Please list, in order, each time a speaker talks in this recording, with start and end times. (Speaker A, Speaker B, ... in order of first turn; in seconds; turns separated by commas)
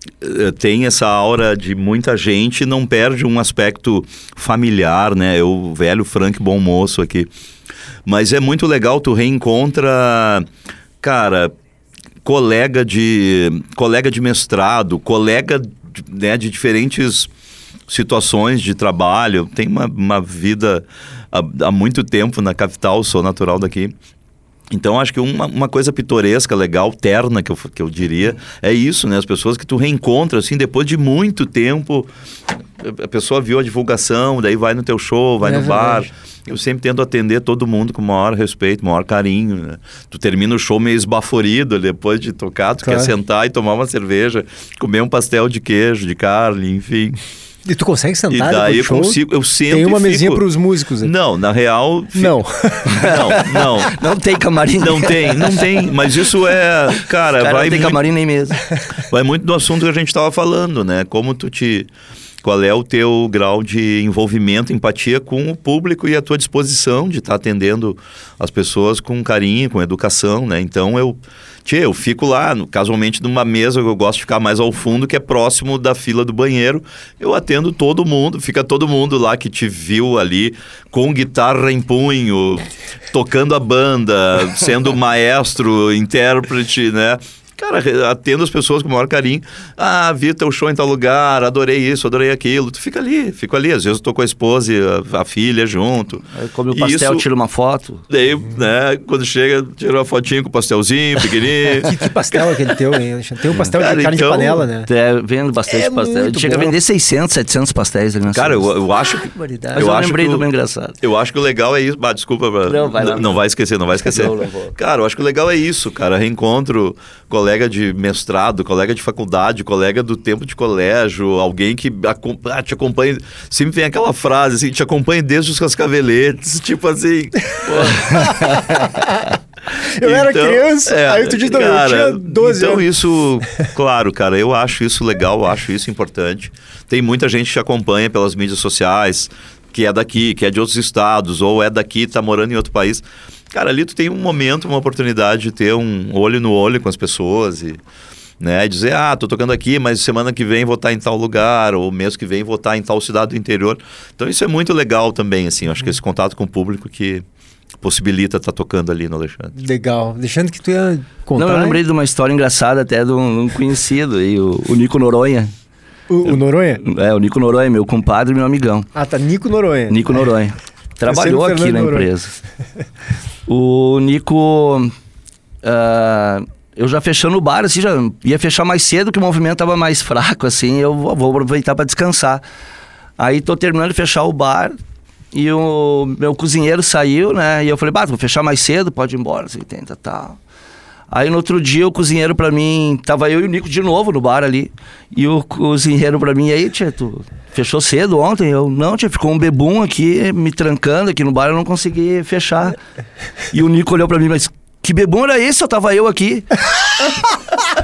Speaker A: 0.2-7.3, Speaker A: 8.1-10.5, Speaker A: 11.0-11.5, Speaker A: 12.2-17.3, Speaker A: 17.9-23.9, Speaker A: 24.7-47.2, Speaker B: 35.4-36.1, Speaker B: 42.8-43.1, Speaker B: 47.6-51.1, Speaker A: 48.3-50.4, Speaker A: 51.0-54.0, Speaker B: 52.1-53.2, Speaker C: 52.9-58.6, Speaker A: 54.8-58.0, Speaker A: 59.0-61.9, Speaker A: 62.4-97.2, Speaker C: 96.3-98.0, Speaker A: 98.1-101.9, Speaker B: 101.8-104.9, Speaker A: 103.5-104.7, Speaker C: 104.8-108.7, Speaker B: 105.7-106.7, Speaker A: 108.3-110.5, Speaker B: 109.2-109.9, Speaker C: 109.7-111.0, Speaker A: 111.0-128.8, Speaker C: 112.7-113.4, Speaker C: 113.9-114.7, Speaker C: 127.8-128.8, Speaker B: 128.0-132.9, Speaker A: 129.8-147.8, Speaker A: 148.4-157.2, Speaker A: 157.8-159.5, Speaker B: 159.5-161.8, Speaker C: 161.3-165.5, Speaker B: 166.1-166.8, Speaker C: 166.2-168.9, Speaker B: 168.9-170.2, Speaker C: 169.9-172.3, Speaker B: 171.1-172.1, Speaker C: 173.5-174.9, Speaker C: 175.6-182.4, Speaker C: 183.2-184.8, Speaker C: 185.3-190.4, Speaker C: 191.1-202.8, Speaker C: 203.5-207.2